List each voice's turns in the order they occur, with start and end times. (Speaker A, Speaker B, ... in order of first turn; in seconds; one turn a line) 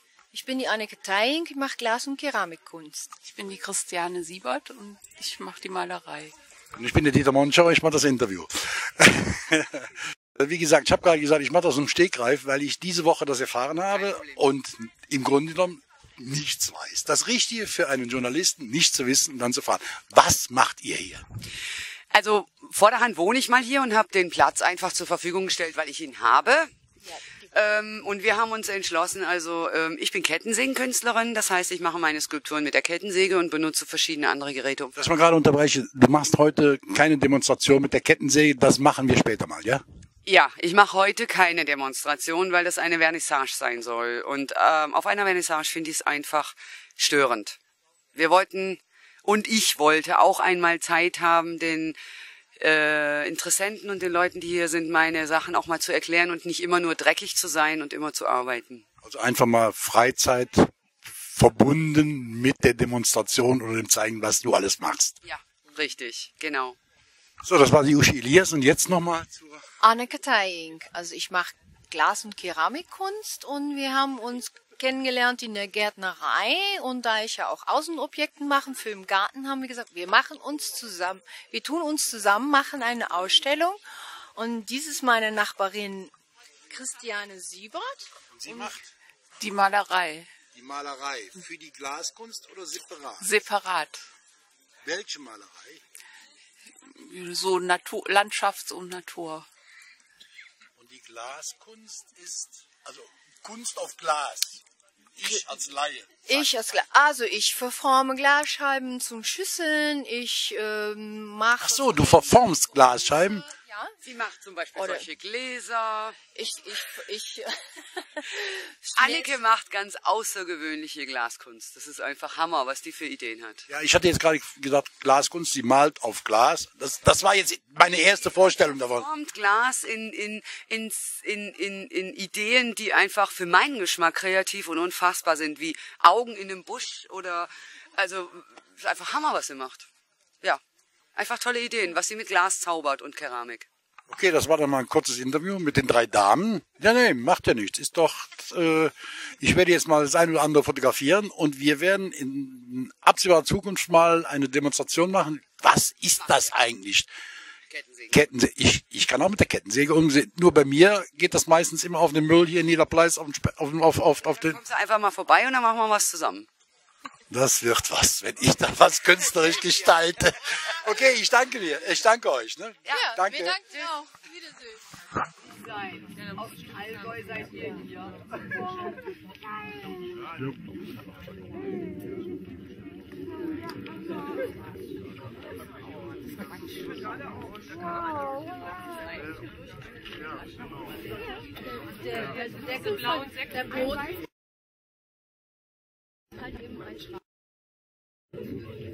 Speaker A: 0.3-3.1
Speaker B: 3.2-6.3
Speaker C: 6.8-21.2
Speaker D: 13.9-14.4
Speaker D: 22.1-26.7
Speaker A: 27.0-27.5
Speaker D: 27.5-34.9
Speaker C: 35.0-39.8
Speaker D: 40.2-47.6
Speaker D: 48.1-52.0
Speaker D: 52.6-58.8
Speaker C: 59.0-60.7
Speaker C: 61.2-65.2
Speaker D: 65.2-66.8
Speaker C: 67.4-69.6
Speaker A: 69.8-83.8
Speaker A: 84.3-86.1
Speaker A: 86.7-88.7
Speaker C: 88.3-88.9
Speaker B: 89.4-90.3
Speaker C: 90.5-93.3
Speaker B: 93.2-94.0
Speaker C: 94.8-95.8
Speaker B: 96.9-99.5
Speaker C: 100.8-104.6
Speaker C: 105.2-106.8
Speaker A: 106.3-112.4
Speaker C: 111.6-113.5
Speaker A: 113.1-114.0
Speaker D: 114.0-116.2
Speaker A: 114.8-115.1
Speaker A: 116.3-119.4
Speaker D: 119.0-123.7
Speaker C: 123.7-129.1
Speaker D: 129.0-139.9
Speaker D: 141.2-143.7
Speaker C: 144.1-157.1
Speaker D: 156.2-156.6
Speaker D: 157.7-158.2
Speaker C: 158.1-164.6
Speaker D: 164.4-166.5
Speaker C: 167.3-173.6
Speaker D: 172.8-173.2
Speaker A: 172.9-174.8
Speaker A: 175.7-177.9
Speaker A: 192.3-193.9